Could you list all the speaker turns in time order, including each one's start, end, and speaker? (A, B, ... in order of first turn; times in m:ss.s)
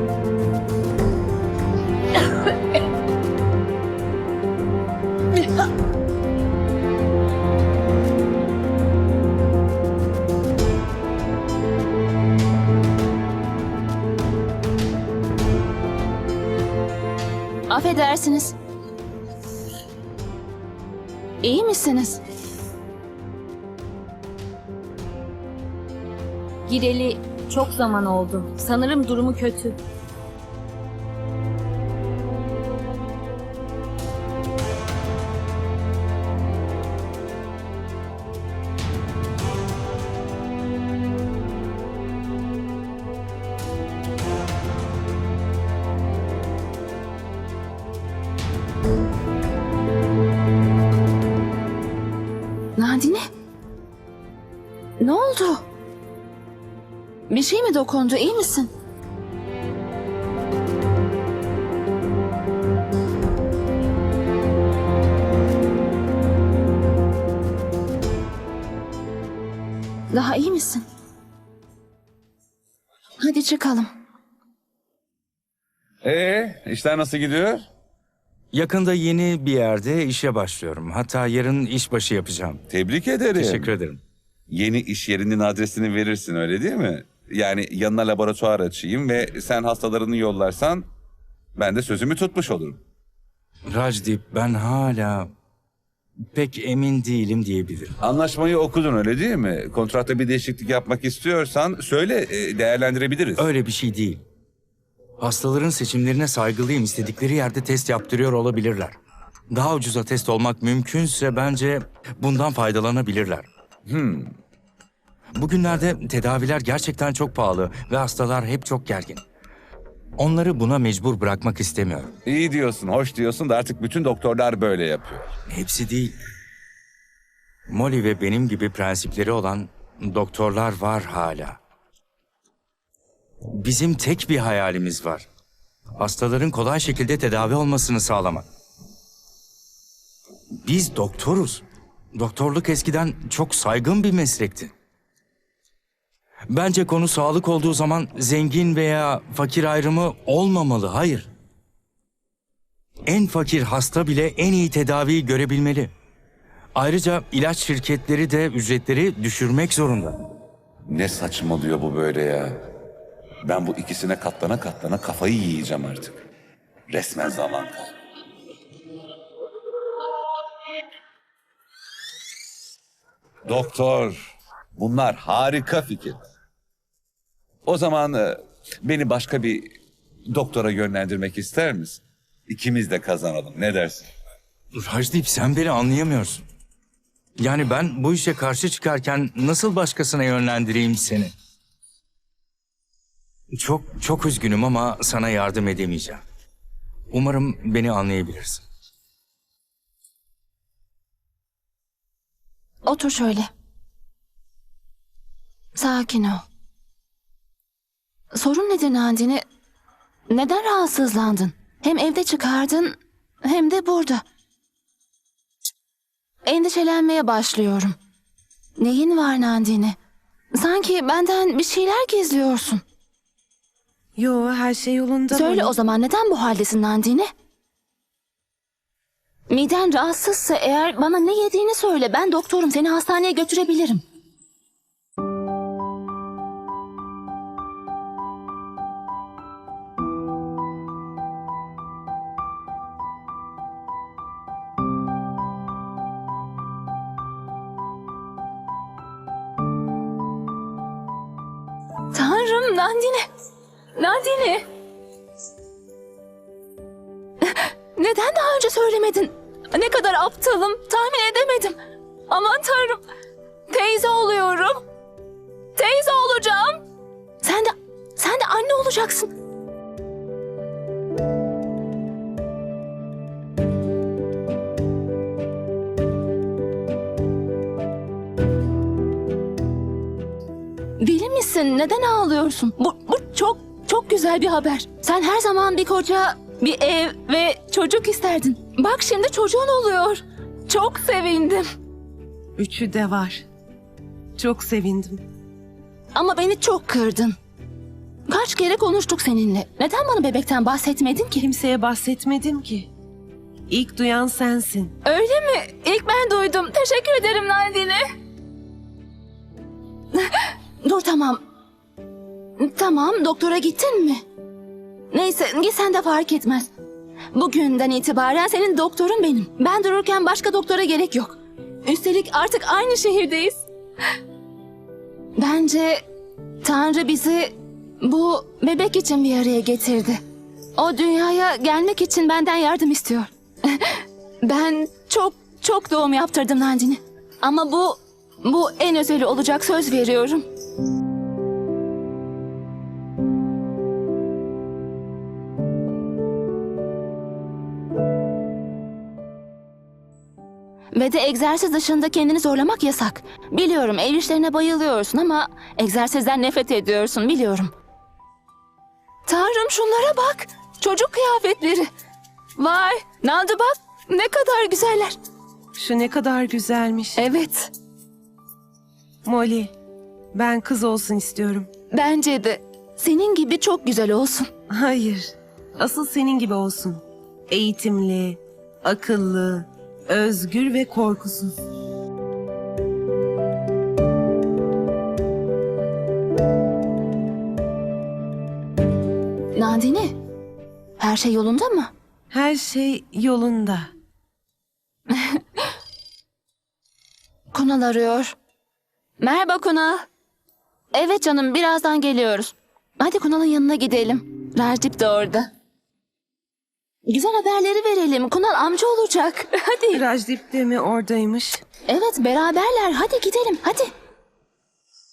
0:17.7-0:18.5 A
0:21.4-0:22.2 A
0:26.7-0:29.7 B
0:52.8-0:53.2 A
0:55.0-0:55.7 A
0:57.3-0:58.7 A
1:10.1-1:10.8 A
1:13.2-1:13.9 A
1:16.0-1:17.7 C
1:18.5-1:22.6 D
1:22.7-1:23.8 C
1:23.4-1:24.0 D
1:24.5-1:30.9 C
1:31.6-1:32.8 C
1:33.7-1:35.3 D
1:36.3-1:37.9 D
1:38.0-1:43.5 C
1:43.4-1:44.2 D
1:45.2-1:49.0 D
1:49.5-1:53.5 D
1:53.9-1:54.3 C
1:55.3-1:59.2 D
2:00.2-2:02.1 D
2:02.2-2:05.3 C
2:05.5-2:06.2 D
2:07.7-2:11.6 D
2:13.5-2:15.3 D
2:16.0-2:18.4 D
2:20.6-2:24.7 D
2:26.5-2:31.3 D
2:33.0-2:35.9 D
2:36.8-2:40.2 D
2:40.9-2:42.6 C
2:43.4-2:46.2 C
2:46.9-2:47.9 C
2:53.4-2:56.2 C
2:57.6-2:59.7 C
3:00.3-3:04.1 C
3:04.8-3:06.4 D
3:07.4-3:11.3 D
3:13.6-3:16.2 D
3:17.1-3:18.6 D
3:22.8-3:23.5 A
3:25.8-3:26.4 A
3:28.3-3:29.4 A
3:30.3-3:34.2 A
3:36.4-3:38.0 A
3:38.8-3:40.0 A
3:40.5-3:42.8 A
3:44.2-3:45.8 E
3:45.3-3:47.3 A
3:49.5-3:54.0 A
4:12.1-4:13.3 A
4:14.0-4:14.6 A
4:17.4-4:21.8 A
4:22.3-4:23.0 A
4:23.7-4:24.8 A
4:25.8-4:26.8 A
4:27.4-4:29.3 A
4:41.0-4:51.6 A
4:52.6-4:53.4 E
4:54.4-4:55.2 E
4:56.1-4:57.4 A
4:58.3-5:01.5 A
5:01.5-5:02.9 E
5:03.7-5:04.9 E
5:05.0-5:08.0 A
5:10.3-5:11.4 A
5:12.6-5:14.2 A
5:15.1-5:16.7 A
5:17.3-5:23.6 A
5:25.4-5:26.0 A
5:26.6-5:30.2 A
5:30.8-5:40.5 A
5:50.9-5:57.7 A
5:59.3-6:01.9 A
6:02.6-6:05.2 A
6:05.8-6:07.2 E
6:07.2-6:07.7 A
6:09.2-6:09.7 E
6:10.3-6:11.7 E
6:11.9-6:14.5 A
6:14.7-6:21.6 E
6:29.5-6:30.2 A
6:31.0-6:31.9 A
6:32.3-6:33.9 E
6:37.5-6:38.4 A
6:39.2-6:40.0 A
6:40.9-6:45.5 A
6:47.1-6:50.0 A
6:49.9-6:51.6 E
6:51.9-6:53.9 A